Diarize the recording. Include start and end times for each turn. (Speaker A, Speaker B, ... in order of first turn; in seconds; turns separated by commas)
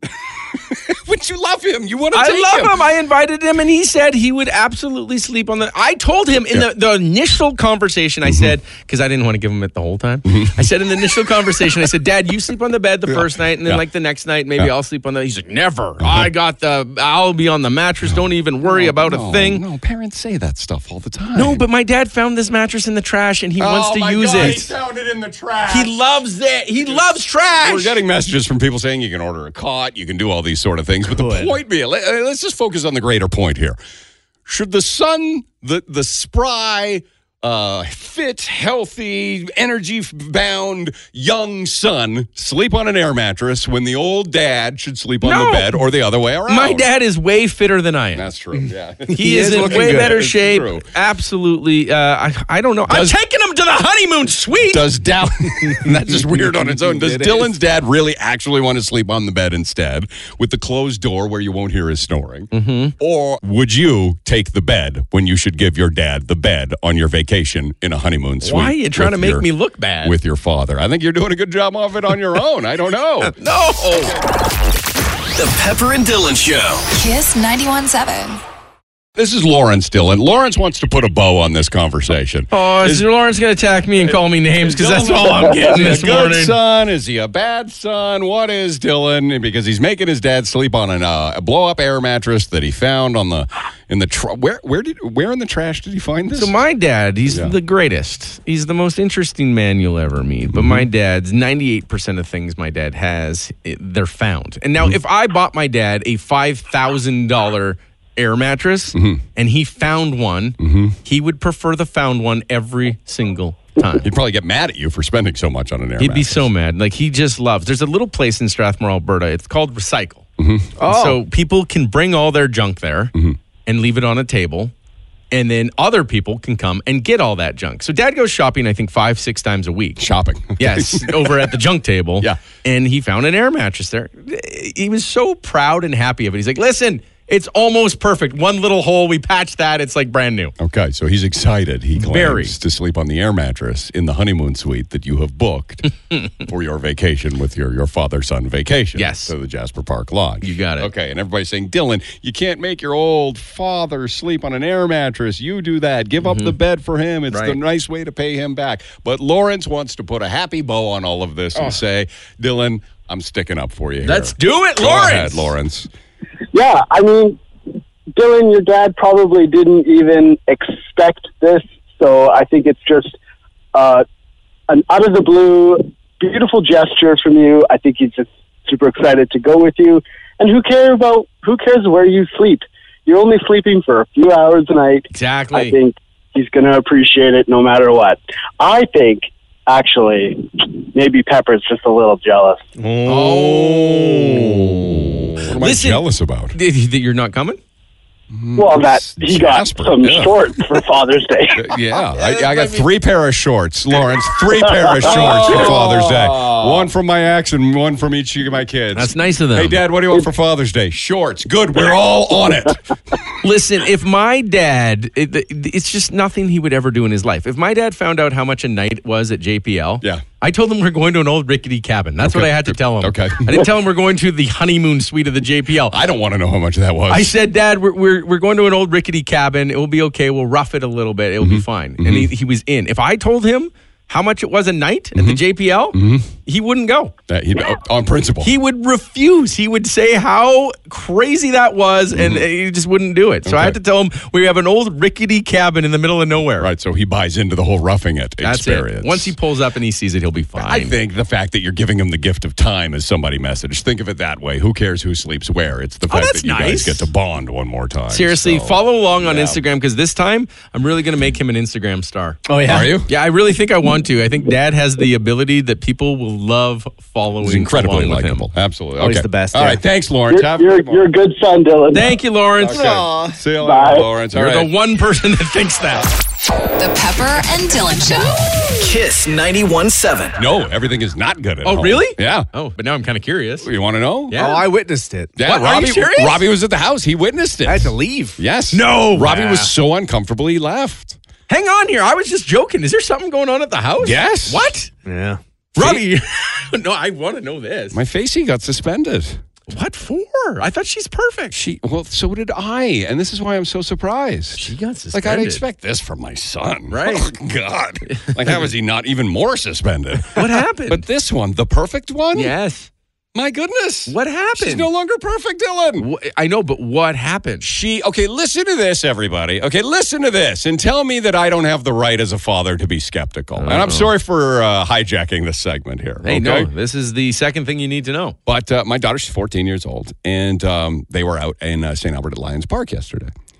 Speaker A: 0.5-2.8, Speaker B: 2.1-19.6, Speaker A: 8.2-8.5, Speaker A: 10.3-10.5, Speaker A: 16.0-16.3, Speaker A: 18.1-21.6, Speaker B: 21.4-24.7, Speaker A: 23.6-25.9, Speaker B: 25.7-28.0, Speaker A: 27.6-33.8, Speaker C: 31.0-31.6, Speaker A: 34.5-46.9, Speaker B: 45.2-45.7, Speaker B: 46.5-48.2, Speaker A: 48.2-50.8, Speaker C: 49.1-50.1, Speaker B: 49.1-54.8, Speaker A: 52.9-53.1, Speaker A: 54.7-69.5, Speaker C: 55.7-57.5, Speaker B: 62.5-62.9, Speaker B: 68.4-70.2, Speaker A: 70.0-73.4, Speaker B: 73.3-74.2, Speaker D: 75.3-76.9, Speaker E: 76.9-78.4, Speaker A: 79.2-83.1, Speaker B: 82.5-86.6, Speaker A: 84.1-96.6, Speaker B: 96.3-114.1, Speaker A: 97.3-97.5, Speaker A: 100.5-100.8, Speaker A: 109.0-109.2, Speaker A: 110.6-111.0, Speaker A: 114.0-116.5, Speaker B: 116.0-120.2, Speaker A: 120.4-120.7, Speaker C: 120.8-121.2, Speaker B: 120.9-123.1, Speaker B: 123.7-124.7, Speaker B: 125.3-130.0, Speaker A: 130.0-131.5, Speaker B: 130.6-140.5, Speaker A: 140.6-165.9, Speaker B: 142.0-142.5, Speaker B: 149.0-149.3, Speaker B: 150.4-150.9, Speaker B: 156.2-156.5, Speaker B: 157.3-157.6, Speaker B: 164.0-165.5, Speaker F: 166.5-167.4, Speaker F: 168.2-173.2, Speaker F: 173.7-174.1, Speaker F: 174.7-192.7, Speaker B: 185.1-185.8, Speaker C: 192.8-195.4, Speaker B: 193.1-194.1, Speaker A: 193.2-196.6, Speaker B: 195.6-197.6, Speaker A: 198.3-200.6, Speaker F: 198.6-201.8, Speaker A: 201.6-212.9, Speaker B: 202.2-202.9, Speaker B: 205.2-205.9, Speaker C: 205.3-205.9, Speaker B: 208.9-209.8, Speaker B: 213.4-225.9, Speaker A: 222.2-223.7, Speaker A: 225.9-227.3, Speaker B: 227.1-237.1, Speaker A: 231.4-232.3, Speaker A: 235.2-235.4, Speaker A: 235.9-236.3, Speaker A: 237.3-238.5, Speaker B: 238.4-246.7, Speaker A: 242.1-242.4, Speaker A: 243.5-243.8, Speaker A: 246.6-249.3, Speaker B: 248.4-251.0, Speaker A: 250.6-259.6, Speaker B: 256.1-257.1, Speaker B: 258.1-262.5, Speaker C: 262.5-263.0, Speaker A: 262.7-263.1, Speaker B: 263.1-268.5, Speaker A: 267.4-271.1, Speaker C: 269.0-269.8, Speaker F: 270.3-272.2, Speaker B: 271.9-272.9, Speaker A: 272.6-274.7, Speaker C: 272.7-273.4, Speaker F: 273.6-274.1, Speaker B: 274.3-276.1, Speaker E: 276.8-278.4, Speaker D: 278.8-280.4, Speaker A: 280.4-282.5, Speaker B: 281.6-283.7, Speaker A: 283.6-284.4, Speaker B: 284.3-284.6, Speaker C: 284.3-285.3, Speaker A: 285.4-291.2, Speaker B: 285.4-286.4, Speaker C: 287.7-288.4, Speaker B: 288.7-289.7, Speaker B: 291.5-294.9, Speaker A: 294.0-294.7, Speaker C: 295.1-295.4, Speaker B: 295.8-298.0, Speaker A: 295.8-296.0, Speaker A: 297.9-299.4, Speaker B: 299.7-301.6, Speaker A: 301.5-312.5, Speaker B: 304.6-305.6, Speaker B: 306.9-307.3, Speaker B: 308.1-308.6, Speaker B: 310.3-311.0, Speaker B: 312.3-312.9, Speaker A: 313.4-316.1, Speaker B: 314.1-314.9, Speaker B: 316.0-317.7, Speaker A: 317.6-326.7, Speaker B: 323.6-324.1, Speaker B: 326.2-328.4, Speaker A: 328.5-333.3